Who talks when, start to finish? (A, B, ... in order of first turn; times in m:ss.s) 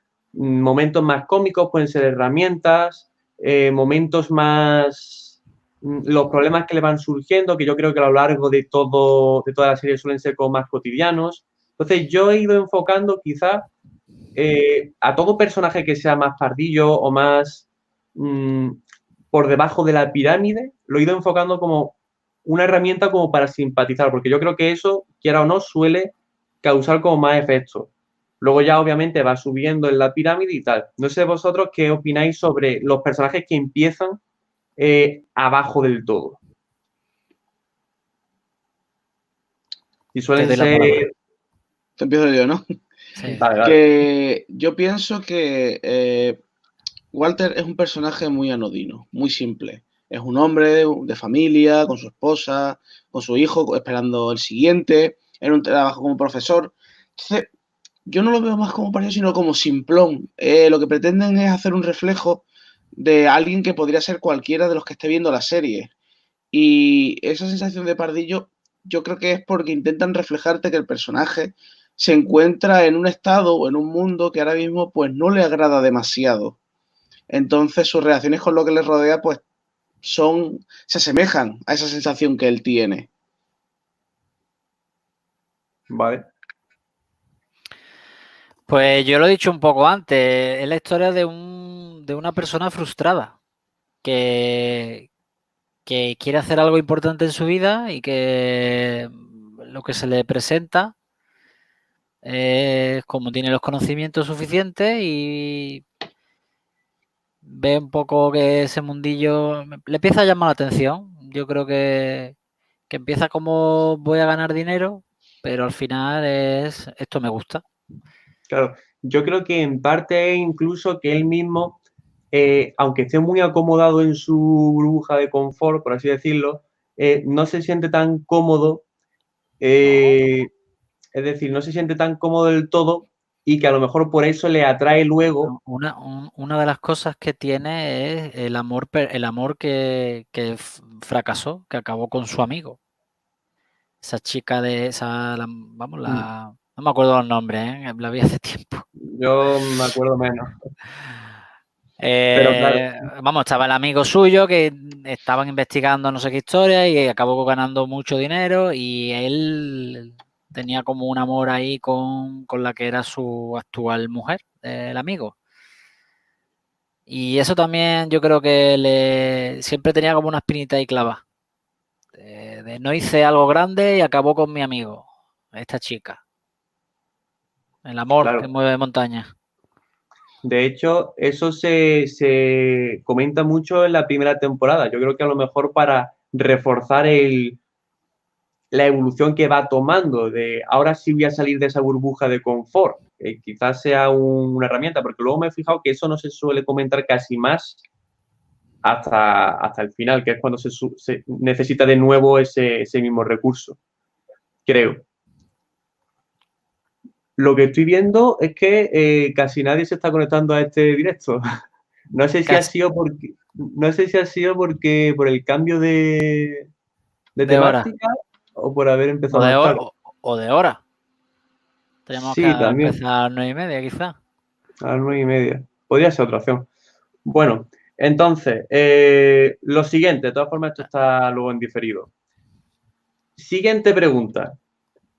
0:00.3-0:13.7 A
0:14.4-0:18.8 A
0:19.3-0:27.9 A
0:28.4-0:34.2 A
0:34.8-0:36.4 A
0:40.1-0:41.1 A
0:40.4-0:41.0 B
0:42.0-0:42.6 C
0:43.2-0:43.4 B
0:43.4-0:43.8 A
0:43.6-0:46.4 C
0:47.1-0:57.5 C
0:58.1-1:02.4 C
1:03.0-1:05.9 C
1:06.5-1:16.6 C
1:17.3-1:19.4 C
1:20.0-1:23.1 C
1:25.9-1:26.3 A
1:28.7-1:33.4 B
1:34.0-1:35.1 B
1:35.9-1:40.9 B
1:42.2-1:45.8 B
1:47.4-1:52.4 B
1:52.9-1:57.6 B
1:58.5-2:01.8 A
2:02.3-2:08.8 A
2:09.6-2:10.5 A
2:11.1-2:15.5 A
2:15.4-2:22.8 B
2:24.0-2:28.9 B
2:29.0-2:30.5 A
2:32.0-2:45.3 B
2:32.4-2:32.8 A
2:47.1-2:51.2 B
2:52.2-2:56.2 B
2:57.8-2:59.3 B
2:58.2-2:58.5 A
3:00.4-3:07.6 A
3:08.7-3:17.8 A
3:18.8-3:23.8 A
3:24.6-3:25.0 A
3:27.4-3:31.4 A
3:32.1-3:36.7 A
3:37.4-3:39.8 A
3:37.5-3:37.9 B
3:39.3-3:40.8 B
3:42.1-3:44.2 B
3:42.2-3:43.0 A
3:44.8-3:46.7 A
3:47.2-3:52.1 A
3:53.4-3:54.6 A